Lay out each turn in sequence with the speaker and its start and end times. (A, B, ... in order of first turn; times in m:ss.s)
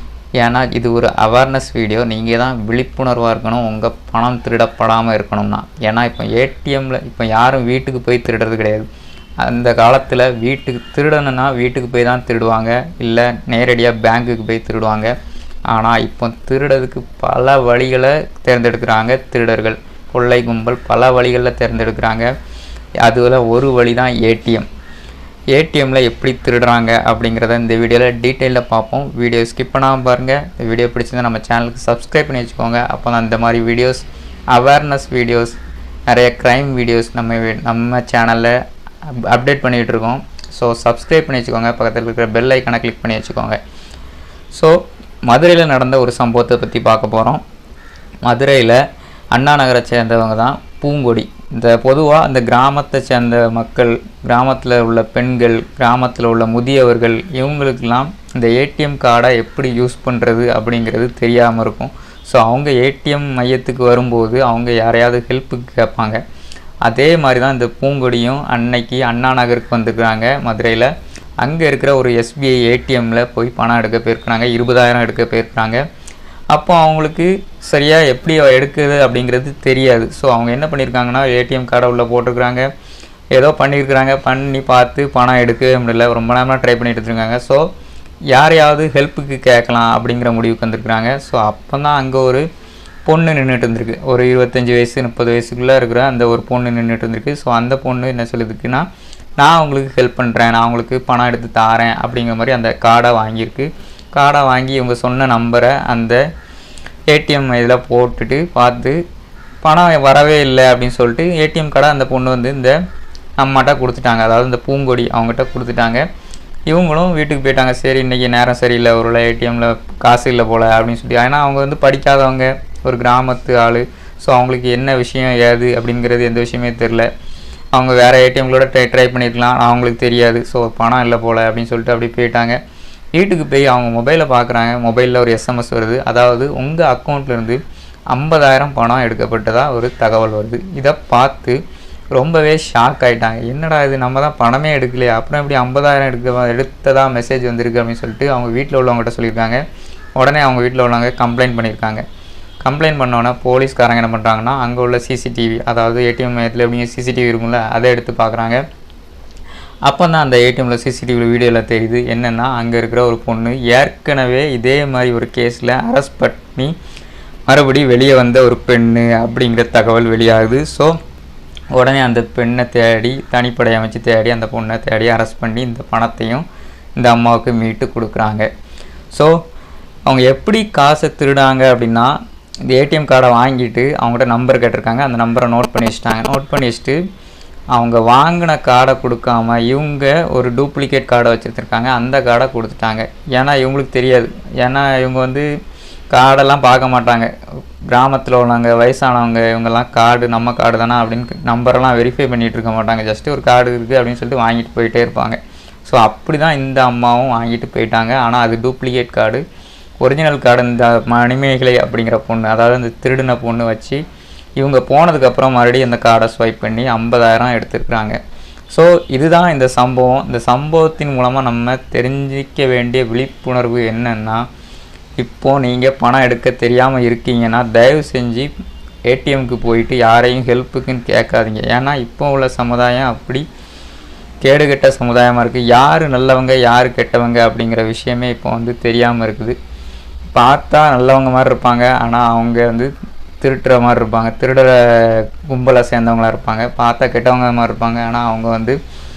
0:00.4-0:08.9 A
0:09.4-0:15.1 A
0:15.7-0:22.3 A
0:23.0-0:24.7 A
0:25.5-0:35.6 A
0:36.1-0:43.6 A
0:44.5-0:47.4 A
0:48.2-0:48.8 A
0:49.3-1:06.2 A
1:06.8-1:15.8 A
1:16.5-1:22.7 A
1:23.3-1:27.7 A
1:28.3-1:32.4 A
1:33.0-1:38.9 A
1:39.4-1:46.2 A
1:47.1-1:49.0 A
1:49.6-1:52.8 A
1:53.4-1:56.0 A
1:56.7-2:07.1 A
2:07.7-2:12.6 A
2:13.1-2:21.6 A
2:22.1-2:29.6 A
2:30.2-2:32.0 A
2:32.6-2:38.6 A
2:39.8-2:46.7 A
2:47.5-2:51.0 A
2:51.7-2:56.4 A
2:57.0-2:58.5 A
2:59.1-2:59.4 A
3:00.0-3:07.0 A
3:07.7-3:15.5 A
3:16.1-3:17.3 A
3:17.9-3:29.4 A
3:30.0-3:34.0 A
3:34.6-3:38.2 A
3:38.7-3:44.5 A
3:45.2-3:48.5 A
3:49.0-3:53.4 A
3:54.4-3:59.6 A
4:00.3-4:08.8 A